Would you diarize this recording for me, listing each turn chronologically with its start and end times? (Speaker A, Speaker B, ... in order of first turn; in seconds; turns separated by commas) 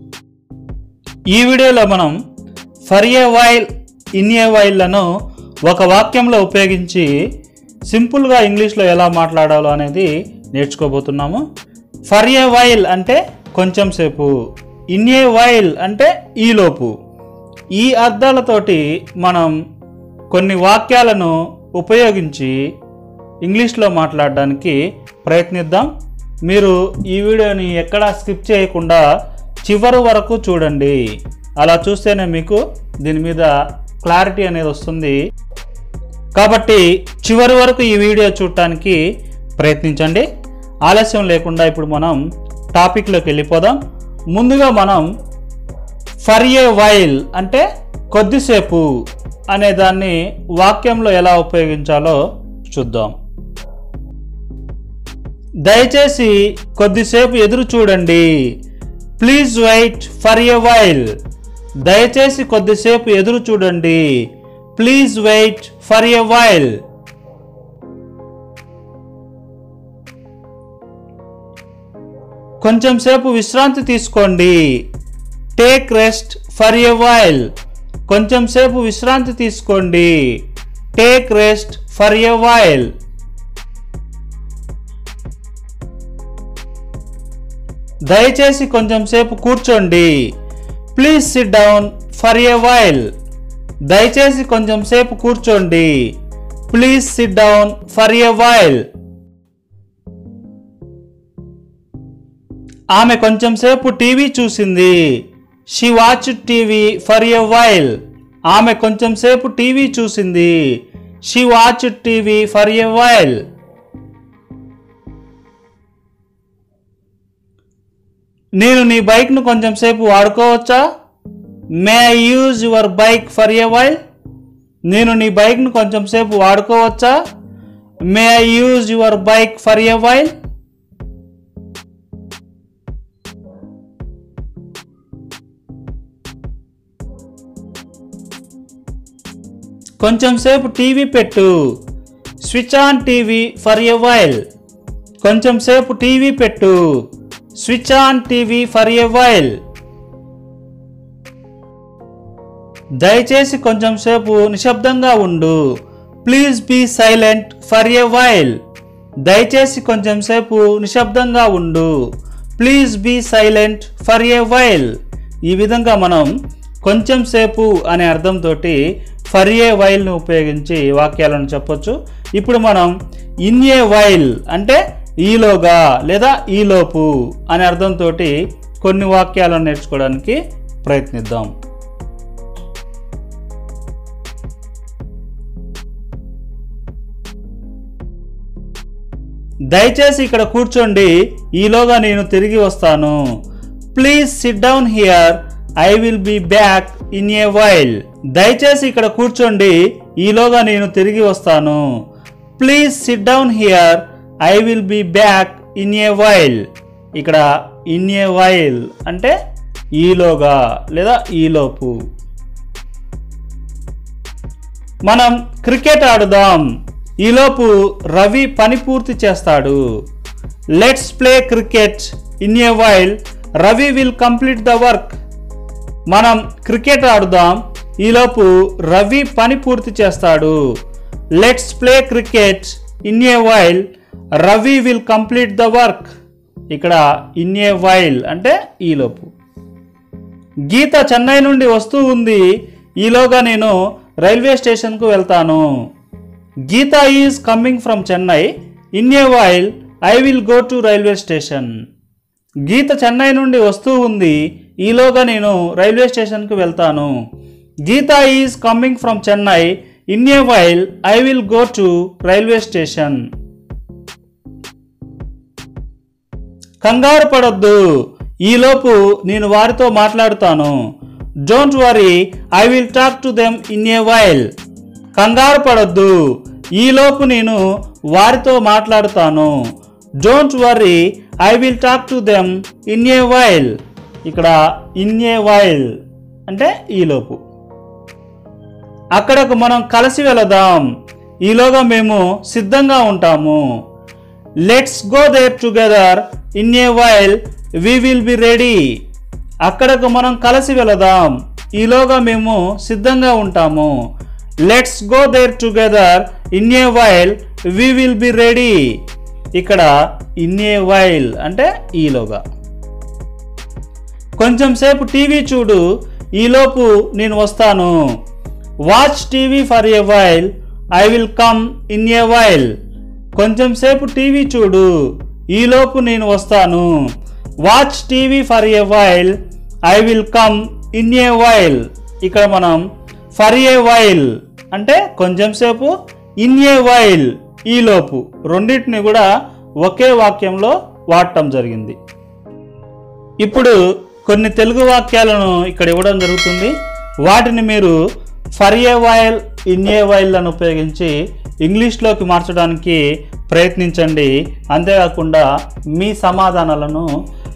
Speaker A: 1.3-2.2, Speaker A: 2.9-5.1, Speaker A: 5.7-7.1, Speaker A: 7.9-11.4, Speaker A: 12.1-14.3, Speaker A: 14.9-16.9, Speaker A: 17.7-19.6, Speaker A: 20.3-22.6, Speaker A: 23.4-25.9, Speaker A: 26.5-29.0, Speaker A: 29.6-31.0, Speaker A: 31.6-33.5, Speaker A: 34.0-35.2, Speaker A: 36.4-39.0, Speaker A: 39.6-40.3, Speaker A: 40.9-42.2, Speaker A: 42.7-43.8, Speaker A: 44.3-45.1, Speaker A: 46.2-48.9, Speaker A: 49.5-53.1, Speaker A: 55.6-58.3, Speaker A: 59.2-61.1, Speaker A: 61.9-64.0, Speaker A: 64.8-66.7, Speaker A: 72.6-74.7, Speaker A: 75.5-77.5, Speaker A: 78.1-80.3, Speaker A: 80.9-82.9, Speaker A: 88.1-90.1, Speaker A: 90.9-93.1, Speaker A: 93.8-96.0, Speaker A: 96.7-98.8, Speaker A: 102.9-105.2, Speaker A: 105.7-108.0, Speaker A: 108.5-110.6, Speaker A: 111.2-113.4, Speaker A: 118.6-120.8, Speaker A: 121.8-124.0, Speaker A: 124.9-127.1, Speaker A: 128.1-130.3, Speaker A: 140.0-141.5, Speaker A: 142.4-144.4, Speaker A: 145.2-146.8, Speaker A: 147.6-149.5, Speaker A: 153.0-155.6, Speaker A: 156.2-158.6, Speaker A: 159.2-161.9, Speaker A: 162.6-164.9, Speaker A: 165.5-166.3, Speaker A: 166.8-168.8, Speaker A: 169.3-172.9, Speaker A: 173.5-181.5, Speaker A: 189.7-193.2, Speaker A: 193.9-201.8, Speaker A: 202.6-206.6, Speaker A: 207.2-209.3, Speaker A: 210.0-212.0, Speaker A: 215.1-216.7, Speaker A: 217.2-219.8, Speaker A: 220.8-225.2, Speaker A: 226.1-230.6, Speaker A: 231.4-233.8, Speaker A: 234.4-236.1, Speaker A: 236.7-239.3, Speaker A: 240.7-242.5, Speaker A: 243.0-245.7, Speaker A: 246.7-251.7, Speaker A: 252.7-257.1, Speaker A: 257.9-263.2, Speaker A: 266.8-267.8, Speaker A: 268.4-270.8, Speaker A: 271.5-274.5, Speaker A: 275.2-276.2, Speaker A: 276.8-277.6, Speaker A: 278.1-279.5, Speaker A: 280.2-283.7, Speaker A: 284.2-285.9, Speaker A: 286.5-287.4, Speaker A: 289.1-290.9, Speaker A: 291.4-293.6, Speaker A: 294.7-298.8, Speaker A: 299.6-303.9, Speaker A: 304.7-308.9, Speaker A: 309.6-309.9, Speaker A: 310.4-312.4, Speaker A: 314.4-315.8, Speaker A: 316.4-317.9, Speaker A: 318.9-322.7, Speaker A: 323.4-324.9, Speaker A: 325.5-326.9, Speaker A: 327.6-329.3, Speaker A: 329.9-332.8, Speaker A: 333.4-335.9, Speaker A: 336.4-339.3, Speaker A: 339.8-342.0, Speaker A: 343.4-346.7, Speaker A: 347.2-348.0, Speaker A: 348.6-357.1